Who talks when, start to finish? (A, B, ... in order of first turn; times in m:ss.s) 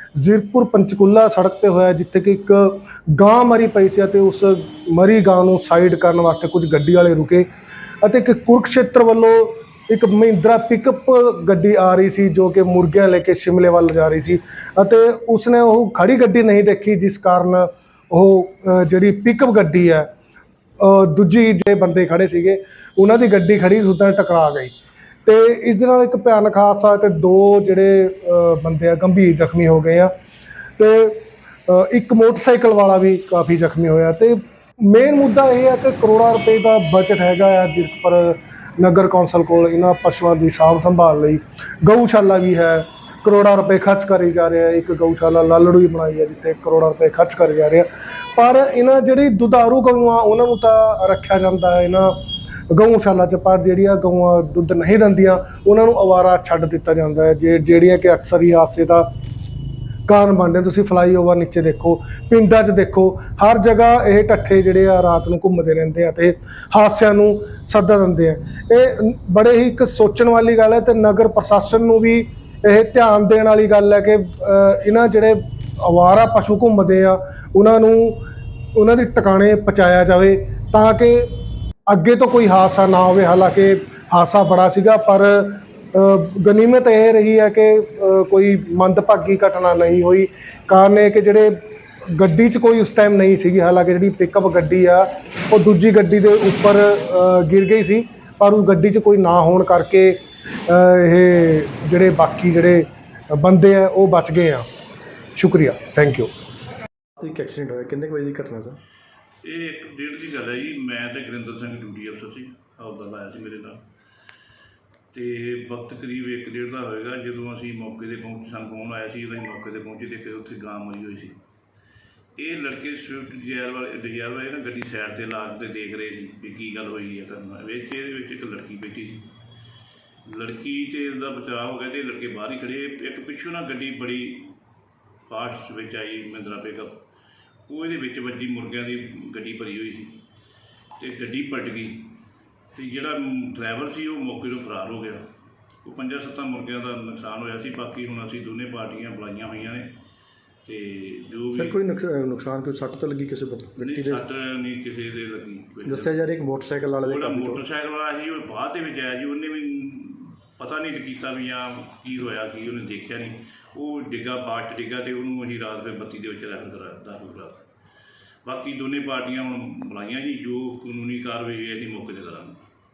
0:00.2-0:07.5 A
0:08.0-0:20.1 A
0:20.8-0:24.7 A
0:25.2-0:30.1 A
0:30.8-0:52.1 A
0:52.7-0:59.1 A
1:00.1-1:18.2 A
1:18.8-1:21.3 A
1:21.9-1:31.6 A
1:32.1-1:44.7 A
1:45.4-1:46.3 A
1:47.2-1:48.8 B
1:49.4-1:53.8 C
1:55.1-2:01.4 C
2:02.4-2:09.3 C
2:10.3-2:14.6 C
2:15.3-2:17.0 C
2:17.7-2:20.2 C
2:21.0-2:22.2 C
2:22.7-2:25.2 C
2:25.8-2:29.9 C
2:30.7-2:31.8 C
2:31.5-2:34.2 B
2:33.8-2:36.2 C
2:35.8-2:37.6 B
2:37.0-2:47.7 C
2:48.4-2:52.6 C